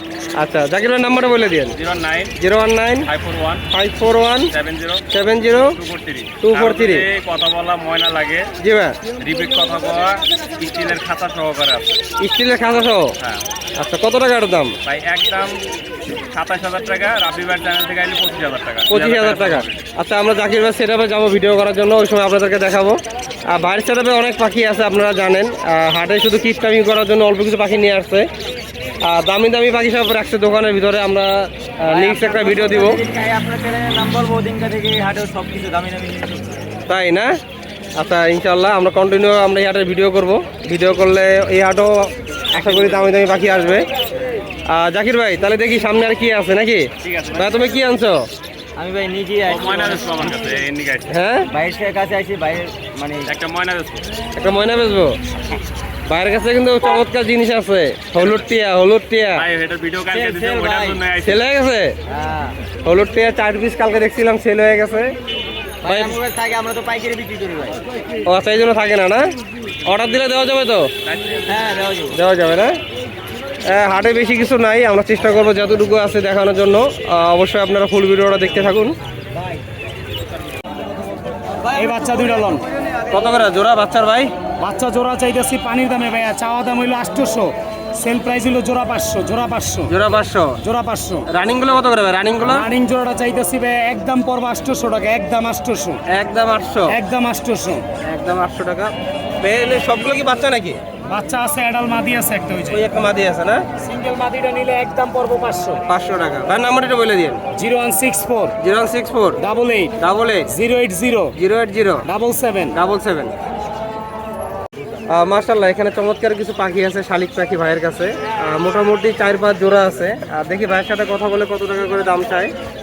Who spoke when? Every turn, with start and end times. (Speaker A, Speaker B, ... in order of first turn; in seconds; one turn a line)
Speaker A: 0.4-1.8
Speaker B: 1.8-2.4
Speaker A: 2.4-3.1
Speaker B: 3.1-3.6
Speaker A: 3.7-4.5
Speaker B: 4.5-5.0
Speaker A: 5.1-5.7
Speaker B: 5.6-8.5
Speaker A: 6.4-7.1
Speaker A: 8.6-9.0
Speaker B: 9.2-11.9
Speaker A: 12.2-13.1
Speaker A: 13.8-14.7
Speaker B: 14.8-19.8
Speaker A: 18.9-23.0
Speaker A: 23.5-28.3
Speaker A: 29.0-33.0
Speaker C: 31.9-36.7
Speaker A: 36.9-37.3
Speaker A: 38.0-43.9
Speaker B: 42.6-43.0
Speaker A: 44.7-48.2
Speaker B: 47.0-47.7
Speaker C: 48.8-50.2
Speaker B: 49.5-51.2
Speaker A: 51.1-51.5
Speaker C: 51.5-53.3
Speaker B: 53.3-54.1
Speaker A: 54.4-55.1
Speaker A: 56.1-59.5
Speaker B: 58.2-58.4
Speaker B: 59.4-61.4
Speaker C: 60.1-61.0
Speaker A: 61.2-62.0
Speaker C: 62.1-62.6
Speaker A: 62.8-65.1
Speaker C: 65.8-67.8
Speaker A: 65.9-66.2
Speaker A: 68.3-69.2
Speaker A: 69.8-70.9
Speaker B: 71.0-71.8
Speaker C: 71.5-72.2
Speaker A: 72.1-72.7
Speaker A: 73.7-79.0
Speaker D: 81.7-82.7
Speaker A: 83.1-84.3
Speaker D: 84.6-89.9
Speaker A: 89.9-90.6
Speaker D: 90.6-91.3
Speaker A: 91.3-92.7
Speaker D: 92.4-96.0
Speaker A: 96.1-97.0
Speaker D: 96.9-97.8
Speaker A: 98.0-100.8
Speaker D: 101.0-102.8
Speaker A: 102.7-103.6
Speaker D: 103.8-105.8
Speaker A: 105.9-107.4
Speaker D: 107.5-108.5
Speaker A: 108.6-109.4
Speaker D: 109.4-109.9
Speaker A: 110.0-110.5
Speaker D: 110.5-111.3
Speaker A: 111.3-112.1
Speaker D: 112.1-112.8
Speaker A: 112.7-113.3
Speaker A: 115.1-122.5